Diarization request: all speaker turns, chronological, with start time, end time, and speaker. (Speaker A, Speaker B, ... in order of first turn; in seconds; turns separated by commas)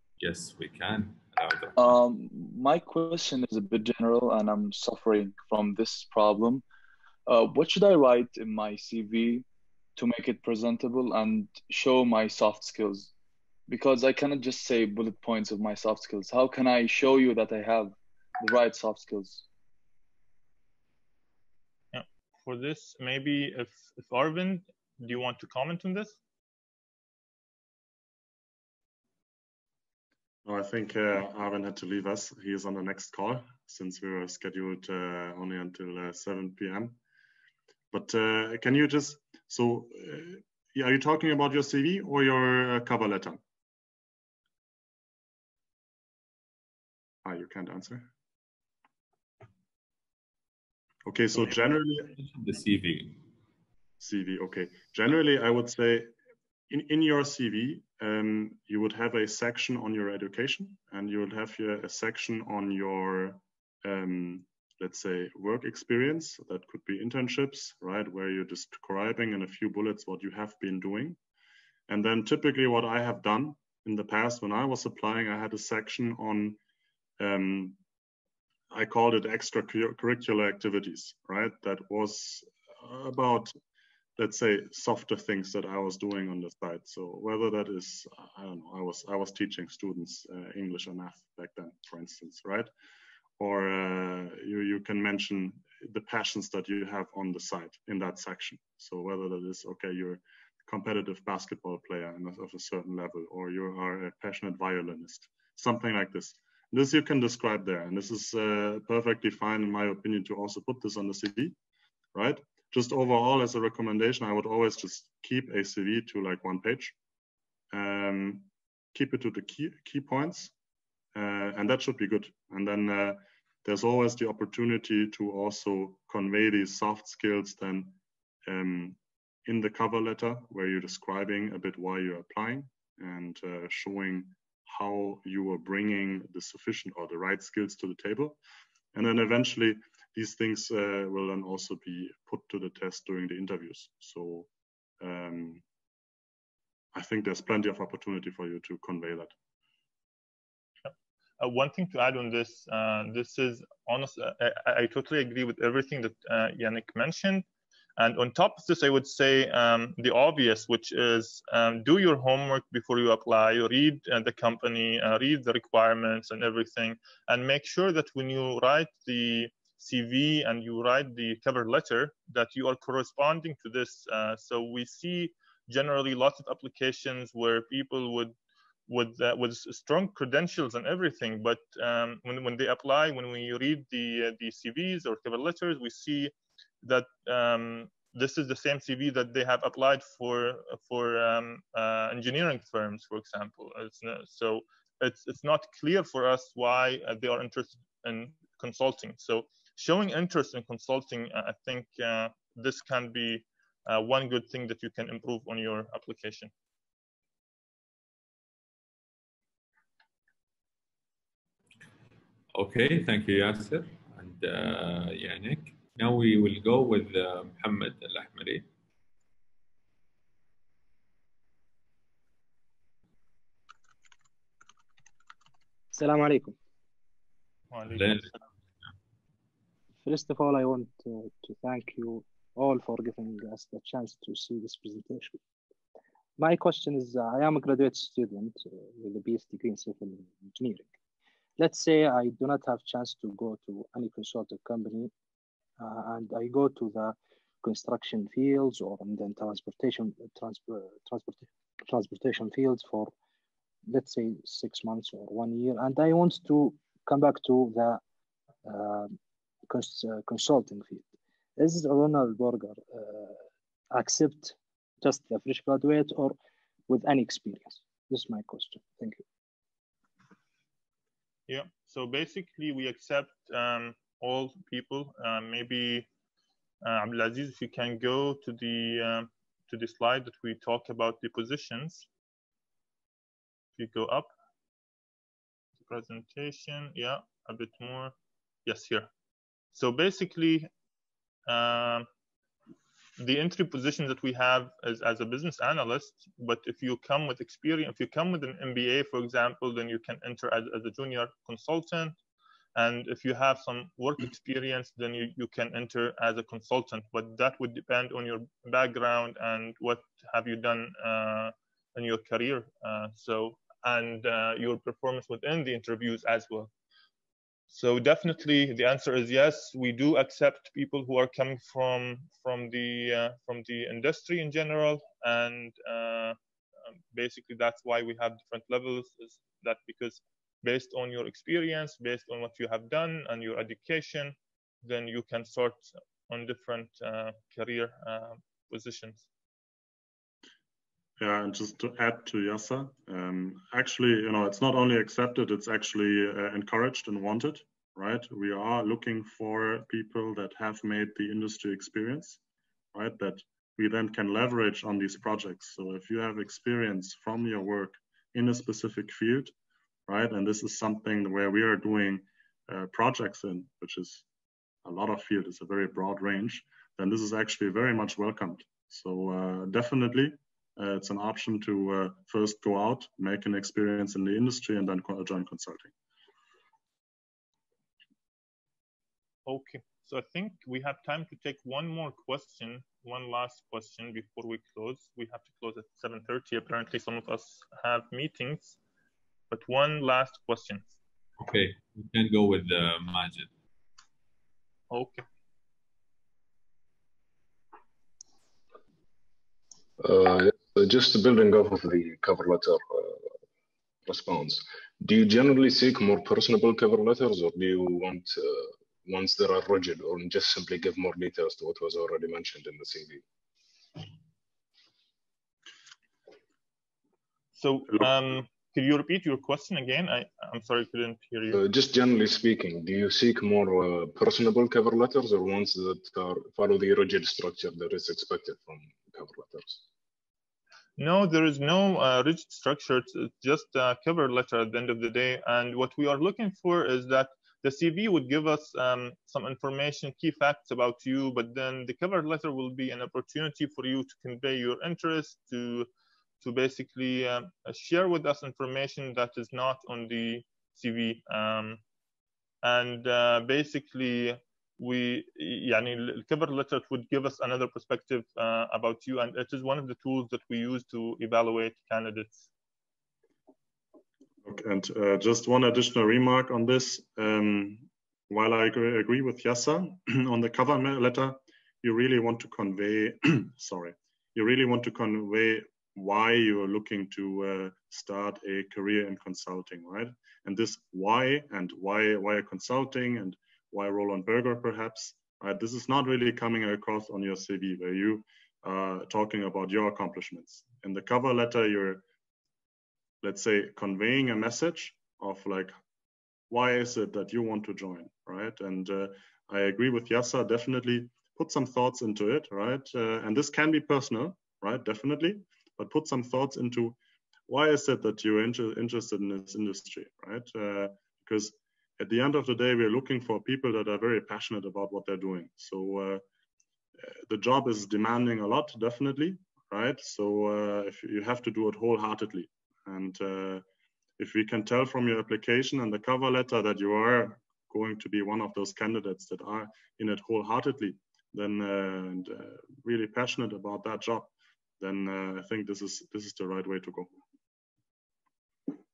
Speaker A: 0.2-2.0, Speaker B: 1.8-6.6, Speaker B: 7.3-9.4, Speaker B: 9.9-13.1, Speaker B: 13.7-19.4, Speaker C: 21.9-26.2, Speaker D: 30.4-37.0, Speaker D: 37.9-43.4, Speaker D: 47.2-48.1, Speaker D: 51.0-52.1, Speaker A: 52.1-53.2, Speaker D: 54.0-56.1, Speaker D: 56.7-71.2, Speaker D: 71.9-76.6, Speaker D: 77.2-77.8, Speaker D: 78.7-83.5, Speaker D: 84.2-92.7, Speaker D: 93.4-111.6, Speaker D: 112.1-116.9, Speaker D: 117.7-120.5, Speaker D: 121.1-138.4, Speaker D: 138.9-144.5, Speaker D: 145.0-145.6, Speaker D: 146.9-149.3, Speaker C: 150.8-157.4, Speaker C: 158.0-178.3, Speaker C: 178.9-206.5, Speaker A: 212.5-218.7, Speaker E: 225.9-226.6, Speaker C: 227.7-228.4, Speaker A: 227.9-228.3, Speaker E: 230.0-235.4, Speaker E: 236.4-240.9, Speaker E: 241.6-245.1, Speaker E: 245.8-253.1, Speaker E: 253.9-258.0, Speaker E: 258.6-259.1, Speaker E: 259.7-263.4, Speaker E: 263.9-266.3, Speaker E: 266.9-269.2, Speaker C: 271.5-276.1, Speaker C: 276.8-282.1, Speaker C: 283.8-284.3, Speaker C: 285.8-289.1, Speaker C: 289.7-290.7, Speaker C: 291.4-292.1, Speaker C: 293.2-302.2, Speaker C: 302.7-316.7, Speaker C: 317.7-326.4, Speaker C: 327.1-339.2, Speaker D: 341.2-352.4, Speaker D: 352.9-359.5, Speaker D: 360.1-364.2, Speaker D: 364.8-375.9, Speaker C: 379.4-388.8, Speaker C: 389.5-390.9, Speaker A: 391.4-393.5, Speaker C: 394.9-395.2, Speaker F: 400.0-403.3, Speaker F: 404.1-413.2, Speaker C: 417.6-421.6, Speaker F: 421.5-429.8, Speaker C: 431.0-445.9, Speaker C: 446.4-451.8, Speaker C: 452.6-462.5, Speaker D: 464.4-492.0, Speaker D: 493.2-495.8, Speaker D: 496.5-507.0, Speaker D: 507.5-516.2, Speaker D: 517.0-523.6, Speaker D: 524.2-537.1